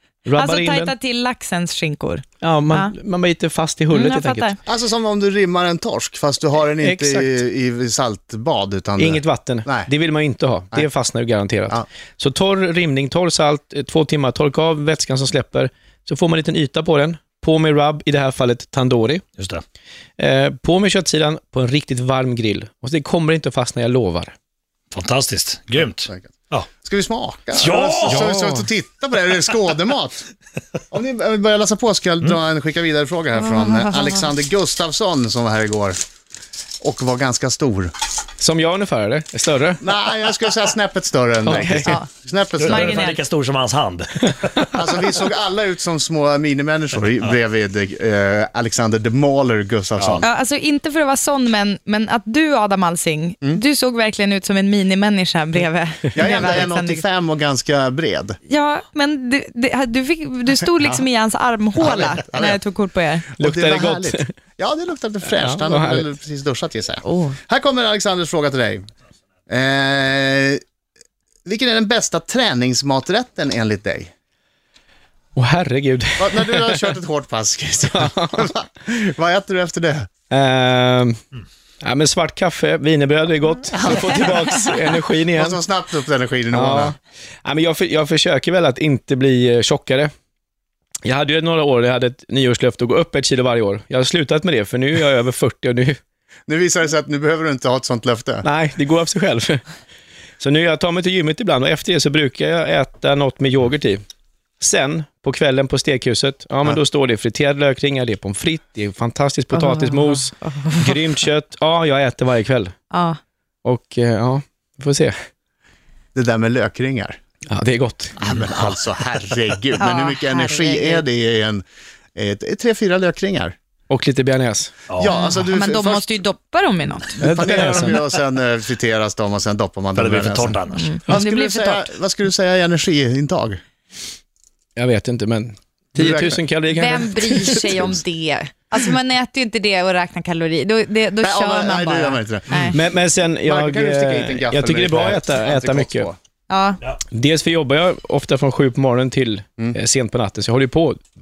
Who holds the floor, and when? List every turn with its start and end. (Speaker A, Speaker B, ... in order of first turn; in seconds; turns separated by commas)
Speaker A: 0.2-0.9, Speaker B: 0.4-3.0, Speaker A: 2.4-4.5, Speaker B: 3.9-4.6, Speaker C: 4.7-9.9, Speaker A: 6.8-7.4, Speaker A: 9.0-19.2, Speaker D: 19.4-19.6, Speaker A: 20.2-24.3, Speaker D: 24.9-26.7, Speaker C: 26.8-30.2, Speaker D: 27.6-28.3, Speaker A: 28.1-28.7, Speaker C: 30.9-36.0, Speaker B: 33.4-34.2, Speaker C: 36.8-37.9, Speaker A: 38.4-39.8, Speaker C: 39.8-43.0, Speaker A: 41.4-41.9, Speaker D: 42.6-44.5, Speaker B: 42.6-43.2, Speaker C: 44.7-50.3, Speaker D: 50.0-50.2, Speaker B: 50.2-57.0, Speaker C: 56.1-58.4, Speaker B: 58.5-63.3, Speaker C: 61.8-62.6, Speaker C: 63.4-68.9, Speaker A: 63.4-64.3, Speaker A: 65.3-66.1, Speaker B: 67.0-67.4, Speaker C: 69.5-70.6, Speaker C: 71.5-74.1, Speaker A: 75.3-76.8, Speaker C: 76.2-80.1, Speaker A: 77.9-78.5, Speaker A: 80.3-81.2, Speaker A: 81.8-85.6, Speaker C: 83.8-84.3, Speaker C: 85.4-87.0, Speaker A: 86.5-90.1, Speaker A: 91.0-96.0, Speaker C: 96.5-98.5, Speaker A: 98.4-99.6, Speaker A: 100.4-104.0, Speaker A: 104.6-112.7, Speaker B: 109.5-111.0, Speaker B: 112.9-113.2, Speaker A: 113.6-115.1, Speaker C: 116.1-117.2, Speaker A: 117.5-118.3, Speaker C: 118.2-121.6, Speaker D: 118.4-118.7, Speaker B: 119.8-121.0, Speaker C: 122.2-123.5, Speaker A: 123.9-124.8, Speaker D: 124.9-125.2, Speaker C: 125.0-126.1, Speaker B: 125.1-127.3, Speaker C: 127.2-133.6, Speaker A: 127.2-128.0, Speaker D: 130.0-130.9, Speaker B: 130.8-131.9, Speaker A: 134.8-137.8, Speaker C: 135.9-136.4, Speaker B: 136.7-142.8, Speaker C: 141.2-142.8, Speaker A: 142.7-146.1, Speaker C: 143.4-146.2, Speaker B: 146.5-146.8, Speaker A: 147.1-151.0